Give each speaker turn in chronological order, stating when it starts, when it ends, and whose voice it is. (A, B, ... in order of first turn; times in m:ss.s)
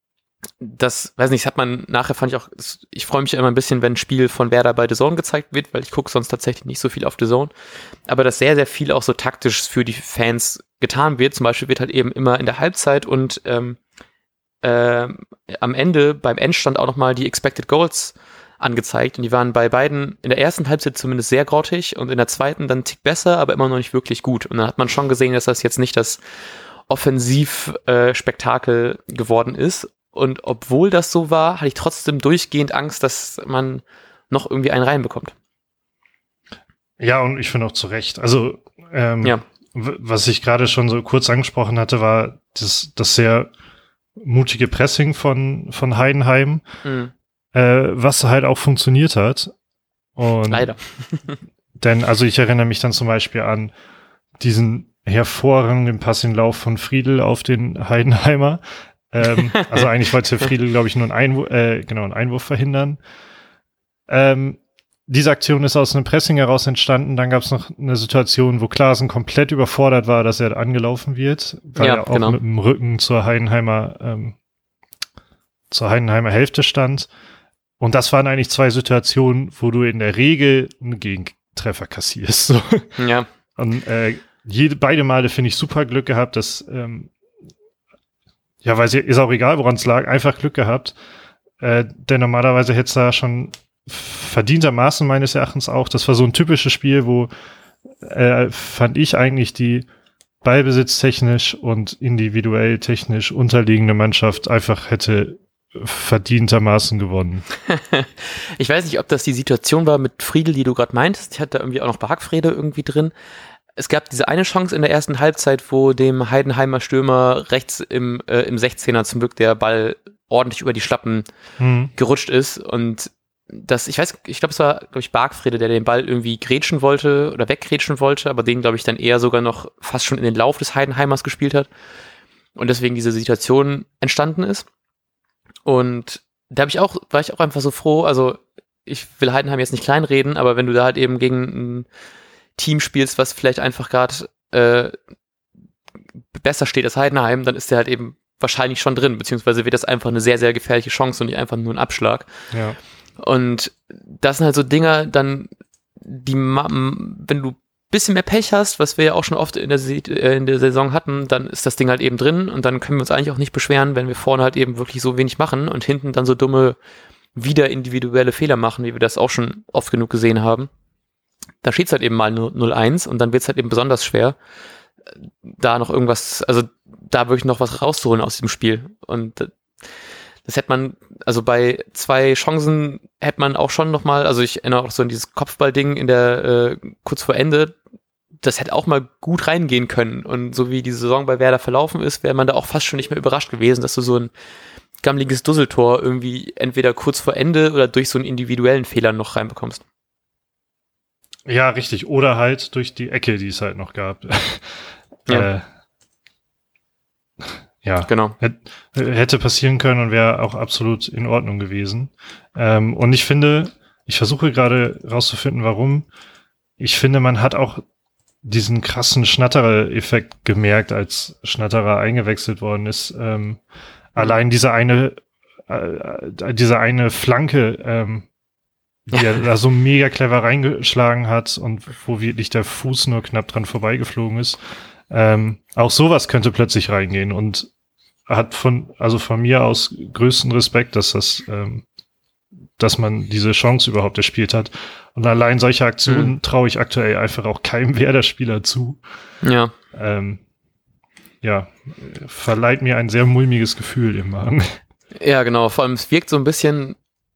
0:00.6-0:07.5 A
0:08.1-0:13.8 A
0:14.6-0:26.2 A
0:26.9-0:35.3 A
0:37.0-0:43.5 B
0:44.2-0:46.6 B
0:46.8-0:47.1 A
0:47.5-0:49.5 B
0:50.2-0:50.7 B
0:50.5-0:51.4 A
0:51.8-0:53.7 B
0:54.4-1:03.0 B
0:59.4-0:59.8 A
1:04.1-1:14.3 B
1:11.8-1:12.4 A
1:15.7-1:17.1 B
1:17.8-1:22.9 B
1:23.0-1:23.3 A
1:23.6-1:27.1 B
1:28.6-1:30.9 B
1:31.6-1:37.3 B
1:38.0-1:39.8 B
1:40.4-1:47.4 B
1:47.7-1:53.1 A
1:53.8-2:01.2 A
2:01.6-2:01.9 B
2:02.0-2:11.7 A
2:12.6-2:14.6 A
2:15.6-2:21.8 A
2:22.6-2:25.0 A
2:26.3-2:32.3 A
2:32.5-2:32.8 B
2:33.2-2:35.5 A
2:36.0-2:46.8 A
2:47.3-2:50.7 A
2:51.6-2:54.4 A
2:55.4-2:59.5 A
3:00.4-3:07.7 A
3:08.4-3:14.3 A
3:15.0-3:19.8 A
3:21.5-3:24.7 B
3:25.3-3:25.6 B
3:27.8-3:36.0 B
3:28.1-3:28.4 A
3:36.8-3:37.8 B
3:38.4-3:43.6 B
3:44.1-3:45.2 B
3:45.7-3:48.3 B
3:49.1-3:54.6 B
3:55.1-3:57.7 B
3:58.3-4:01.8 B
4:02.8-4:09.0 B
4:06.1-4:06.3 A
4:09.4-4:09.7 A
4:09.9-4:10.4 B
4:11.4-4:14.8 B
4:15.2-4:17.0 A